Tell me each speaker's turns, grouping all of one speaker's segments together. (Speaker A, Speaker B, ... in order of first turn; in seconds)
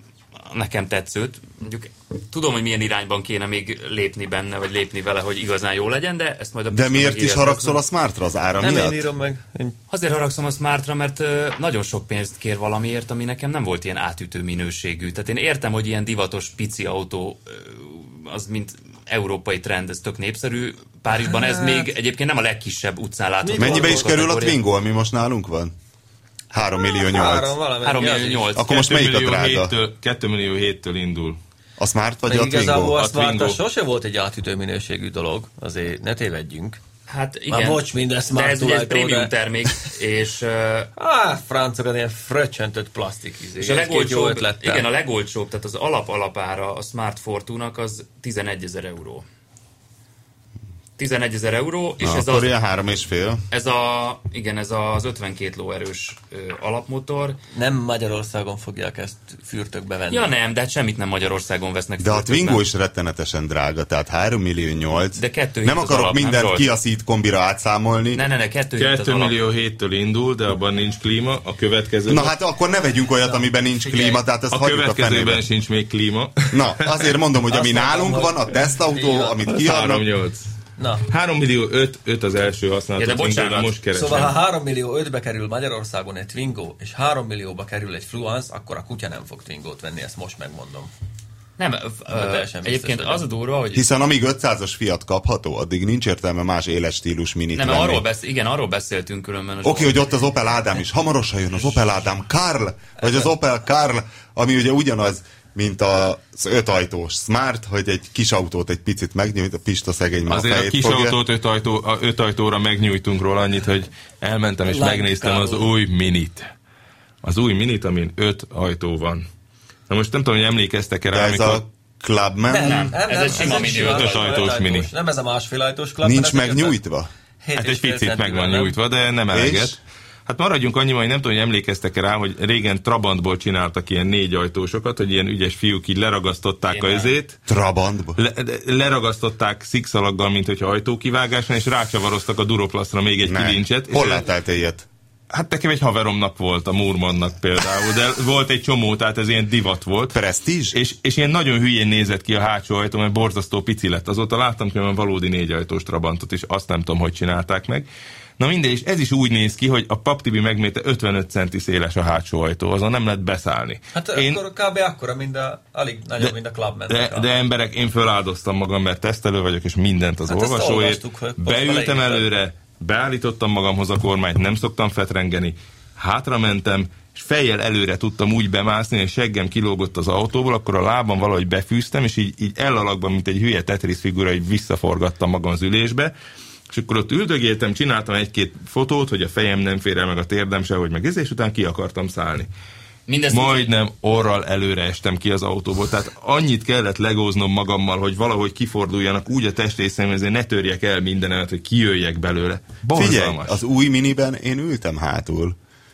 Speaker A: 0.5-7.8, 9.9-24.6, 27.8-28.9, 37.1-40.9, 43.6-49.2, 51.0-52.5, 53.5-57.4, 60.1-62.6, 65.2-66.7, 68.1-69.4, 83.0-83.8, 91.6-93.9, 97.5-100.0, 122.6-124.5, 136.7-137.1, 193.1-193.7
Speaker B: 6.7-9.0, 23.6-25.7, 26.5-27.5, 28.6-29.7, 31.8-33.0, 52.0-53.4, 62.0-68.2, 72.1-75.5, 76.5-80.1, 93.7-98.0, 99.6-111.2, 121.1-123.0, 126.0-127.1, 129.3-129.8, 137.5-138.2, 143.2-144.9, 150.1-150.8, 202.9-205.6
Speaker C: 8.6-9.8, 21.3-21.9, 23.4-24.2, 27.0-28.5, 32.3-36.8, 37.5-39.3, 41.0-44.9, 57.5-60.3, 73.2-74.2, 77.5-79.5, 80.8-81.1, 83.9-90.9, 92.1-93.2, 114.7-115.7, 122.5-126.8, 127.4-128.8, 163.9-167.3, 170.3-172.3
Speaker D: 28.7-31.4, 33.0-33.6, 68.8-72.3, 74.5-77.1, 79.5-80.5, 81.1-84.4, 110.3-116.5, 117.2-119.3, 119.9-121.6, 123.3-124.9, 127.6-137.4, 138.2-144.2, 145.3-150.2, 150.7-157.9, 158.4-164.4, 166.9-186.1, 186.7-192.5, 193.3-203.6